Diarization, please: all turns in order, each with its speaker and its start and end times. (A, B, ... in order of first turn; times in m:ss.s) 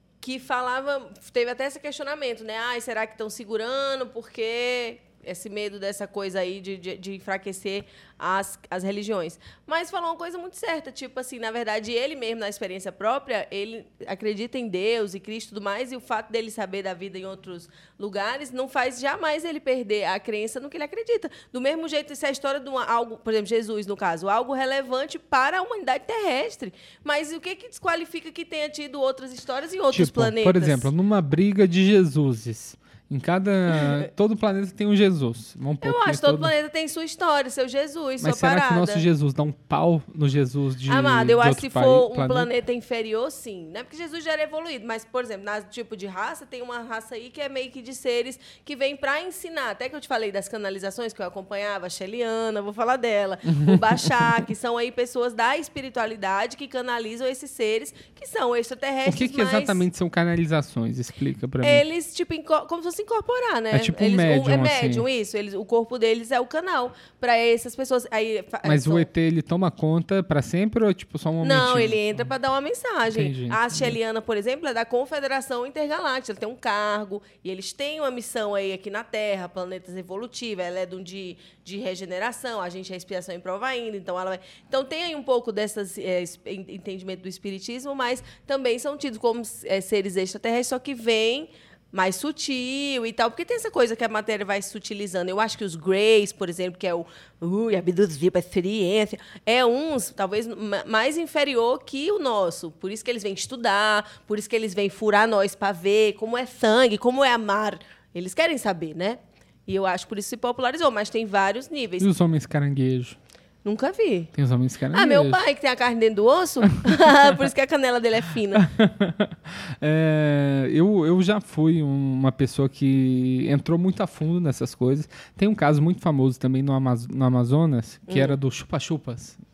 0:00.2-0:30.9 A
0:29.9-0:36.5 B
0:35.8-0:39.0 A
0:38.2-0:42.5 B
0:40.9-0:59.8 A
0:53.5-0:54.4 B
0:59.0-1:01.8 B
1:01.6-1:09.1 A
1:03.7-1:05.0 B
1:08.6-1:12.3 B
1:11.4-1:52.1 A
1:13.1-1:14.0 B
1:52.0-1:53.2 B
1:53.6-1:54.3 A
1:54.3-1:55.4 B
1:54.9-1:58.7 A
1:56.8-1:57.3 B
1:58.5-2:09.4 B
2:08.1-2:08.4 A